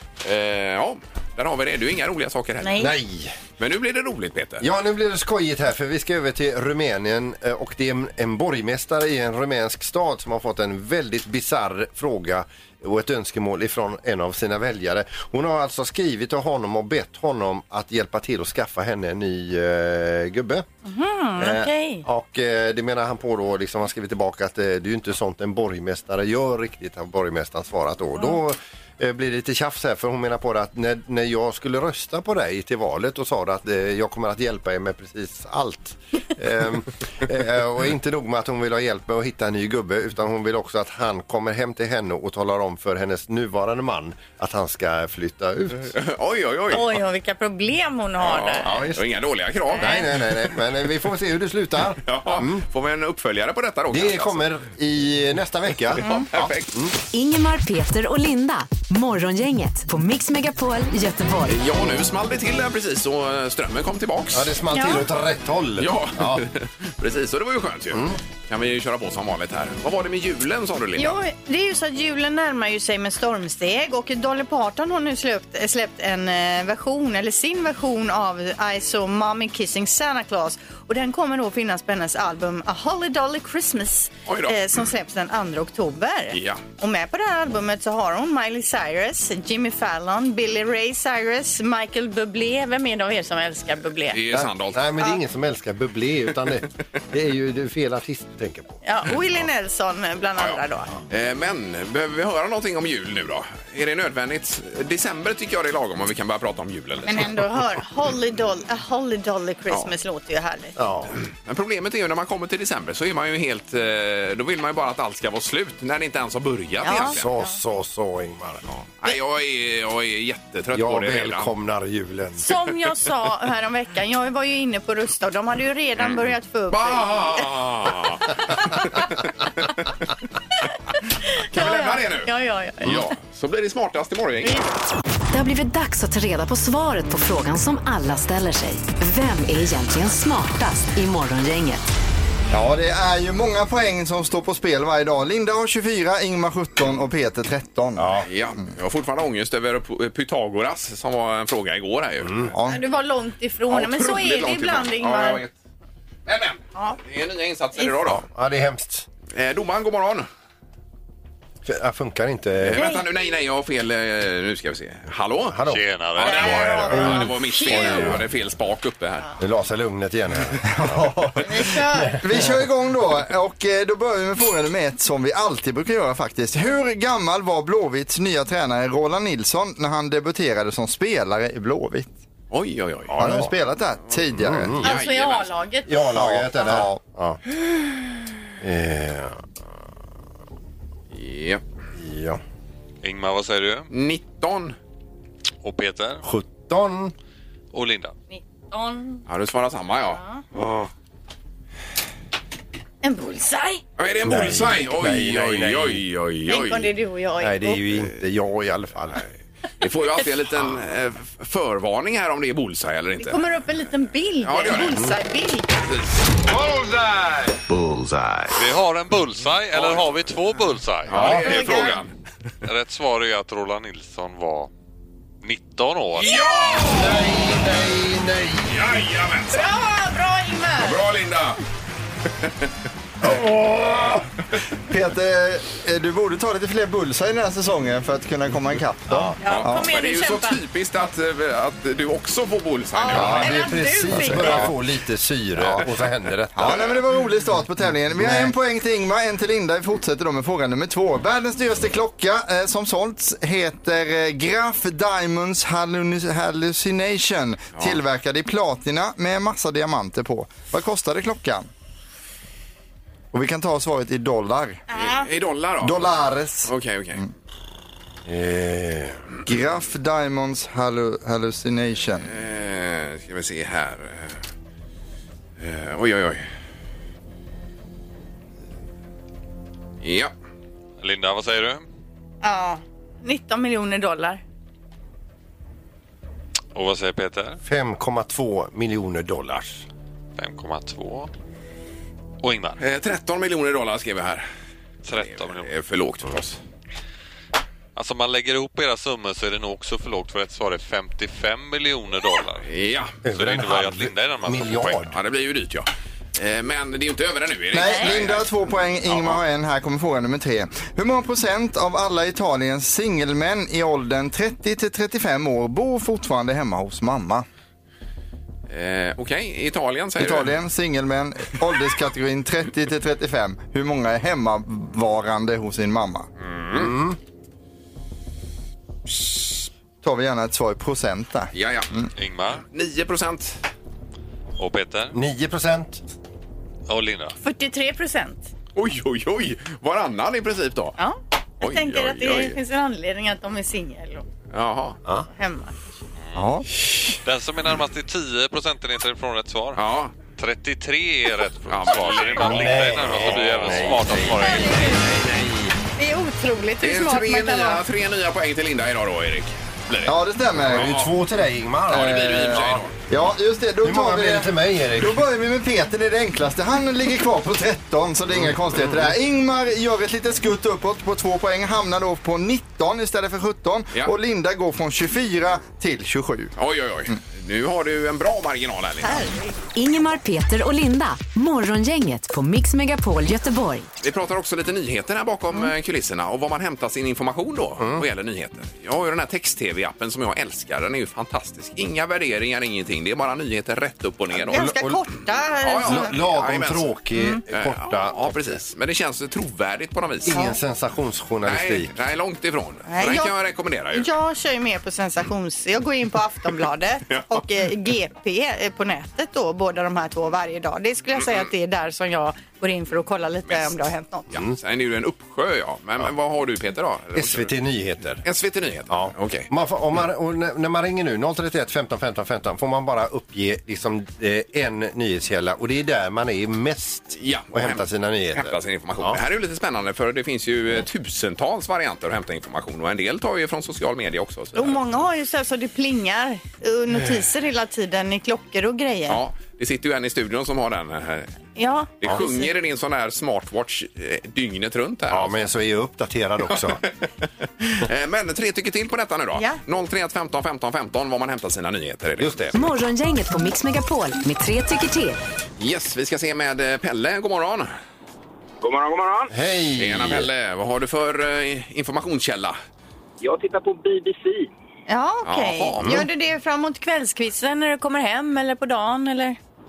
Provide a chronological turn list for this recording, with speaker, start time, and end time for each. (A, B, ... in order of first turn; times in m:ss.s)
0:00.2-0:03.0 A
0:02.6-0:02.9 B
0:02.8-0:03.4 C
0:03.6-0:04.7 A
0:04.6-0:20.7 C
0:20.8-0:22.0 B
0:21.4-0:46.0 C
0:46.0-0:47.0 A
0:46.7-0:48.7 B
0:48.2-0:50.3 A
0:48.6-0:49.0 C
0:49.7-0:50.0 B
0:49.8-0:52.6 C
0:52.0-0:54.5 A
0:53.9-0:56.9 C
0:56.0-0:56.7 A
0:57.1-1:01.6 D
1:01.5-1:04.5 A
1:04.3-1:06.4 C
1:04.7-1:05.0 B
1:05.8-1:11.2 A
1:07.9-1:08.2 C
1:11.0-1:34.2 B
1:24.3-1:24.8 A
1:26.3-1:26.6 A
1:34.1-1:34.9 A
1:34.3-1:38.8 C
1:38.8-1:40.9 B
1:40.4-1:47.4 A
1:47.1-1:50.8 B
1:50.8-1:51.2 C
1:51.2-1:57.3 A
1:56.8-1:57.6 B
1:57.1-1:58.6 C
1:59.0-2:01.5 A
2:00.7-2:02.5 C
2:02.4-2:07.5 B
2:06.7-2:09.8 A
2:11.2-2:13.1 B
2:11.5-2:12.3 A
2:12.8-2:14.6 A
2:14.4-2:14.7 B
2:15.3-2:21.8 D
2:22.5-2:28.2 E
2:28.0-2:28.3 C
2:28.2-2:32.5 A
2:32.2-2:32.5 C
2:32.5-2:32.8 E
2:32.7-2:35.4 B
2:33.7-2:35.5 A
2:36.3-2:38.2 A
2:38.0-2:39.1 C
2:39.3-2:40.3 A
2:41.6-2:42.9 C
2:42.6-2:45.6 A
2:42.8-2:43.0 B
2:45.5-2:48.2 C
2:45.7-2:47.0 F
2:46.2-2:49.3 A
2:46.2-2:48.2 B
2:49.4-2:52.6 C
2:50.8-2:51.6 E
2:51.4-2:52.2 B
2:52.2-3:02.1 E
3:02.5-3:03.2 A
3:03.1-3:03.5 C
3:03.2-3:04.8 E
3:04.3-3:04.9 C
3:04.8-3:05.5 A
3:04.8-3:06.7 B
3:05.9-3:07.4 C
3:06.2-3:07.0 E
3:08.6-3:09.5 C
3:11.1-3:11.6 A
3:12.0-3:12.4 C
3:13.0-3:13.9 F
3:13.9-3:14.8 A
3:15.6-3:16.2 F
3:16.2-3:17.1 C
3:17.7-3:18.1 F
3:18.3-3:19.2 B
3:19.3-3:20.2 A
3:20.1-3:20.4 B
3:23.0-3:23.8 B
3:24.0-3:26.9 A
3:24.2-3:26.0 C
3:26.5-3:27.8 B
3:27.4-3:29.2 C
3:29.8-3:33.4 A
3:33.2-3:35.7 B
3:34.4-3:35.0 A
3:37.7-3:38.6 C
3:38.5-3:41.9 F
3:41.1-3:42.1 A
3:41.2-3:42.0 B
3:42.6-3:44.7 F
3:45.4-3:46.4 F
3:46.2-3:47.2 A
3:46.8-3:48.9 C
3:48.7-3:49.7 A
3:49.5-3:51.0 B
3:50.8-3:51.6 A
3:53.2-3:54.2 E
3:54.9-3:59.8 E
3:59.1-3:59.4 C
3:59.4-4:00.6 B
3:59.4-4:03.7 A
4:02.9-4:04.7 B
4:03.1-4:06.8 C
4:04.3-4:04.7 A
4:06.6-4:21.7 E
4:06.6-4:07.0 A
4:08.1-4:08.5 C
4:23.3-4:24.8 E
4:24.9-4:25.3 B
4:24.9-4:27.2 A
4:25.8-4:27.3 E
4:28.3-4:29.2 C
4:29.5-4:32.3 E
4:32.2-4:34.4 A
4:35.6-4:36.5 A
4:40.0-4:40.3 A
4:41.0-4:41.8 F
4:42.4-4:44.4 B
4:46.7-4:47.6 F
4:47.6-4:49.8 C
4:50.4-4:51.3 F
4:52.4-4:52.8 F
4:52.8-4:54.4 A
4:55.0-4:55.7 F
4:55.2-4:56.6 A
4:58.0-5:02.7 F
5:02.7-5:03.1 A
5:03.2-5:05.1 C
5:03.3-5:05.0 F
5:05.1-5:08.5 A
5:07.7-5:17.4 E
5:07.8-5:08.2 B
5:09.1-5:09.4 A
5:18.7-5:20.5 A
5:20.2-5:26.3 E
5:26.4-5:26.9 A
5:26.7-5:27.2 C
5:29.1-5:32.1 E
5:31.5-5:31.9 A
5:32.2-5:32.6 F
5:32.7-5:33.6 A
5:34.6-5:35.2 F
5:35.1-5:36.0 C
5:36.9-5:37.4 F
5:37.4-5:38.5 B
5:38.8-5:41.0 A
5:41.0-5:44.2 B
5:41.6-5:42.6 A
5:44.5-5:45.0 A
5:45.4-5:45.8 B
5:46.4-5:46.7 E
5:46.9-5:47.2 A
5:47.2-5:49.8 F
5:49.8-5:50.1 A
5:50.4-5:55.0 F
5:51.7-5:52.9 A
5:52.4-5:55.6 C
5:54.4-5:55.0 B
5:56.0-5:57.8 B
5:56.8-6:00.1 A
6:00.1-6:01.0 E
6:00.6-6:02.8 C
6:00.7-6:01.1 A
6:01.9-6:03.0 A
6:03.1-6:16.5 E
6:03.8-6:05.2 C
6:16.6-6:19.3 A
6:19.0-6:19.6 B
6:19.8-6:23.9 D
6:24.0-6:34.7 A
6:27.8-6:28.0 C
6:34.4-6:35.0 C
6:34.5-6:36.2 B
6:35.6-6:36.9 A
6:35.8-6:38.6 C
6:37.5-6:40.4 A
6:40.2-6:41.9 C
6:41.4-6:44.1 A
6:42.9-6:43.3 B
6:43.9-6:54.3 B
6:47.1-6:47.4 A
6:51.2-6:51.5 A
6:53.5-6:57.5 A
6:57.2-6:58.2 C
6:58.2-6:59.5 A
6:58.9-7:09.2 C
7:07.2-7:07.8 A
7:08.4-7:14.8 A
7:14.6-7:19.2 B
7:19.1-7:21.3 A
7:21.6-7:22.5 B
7:22.0-7:25.4 A
7:25.1-7:26.8 C
7:26.5-7:26.9 A
7:27.6-7:32.5 A
7:32.2-7:32.6 C
7:32.5-7:35.2 D
7:35.6-7:37.7 A
7:38.6-7:39.3 G
7:39.3-7:40.3 C
7:39.8-7:42.6 A
7:43.2-7:44.5 G
7:44.9-7:49.4 B
7:45.2-7:46.1 A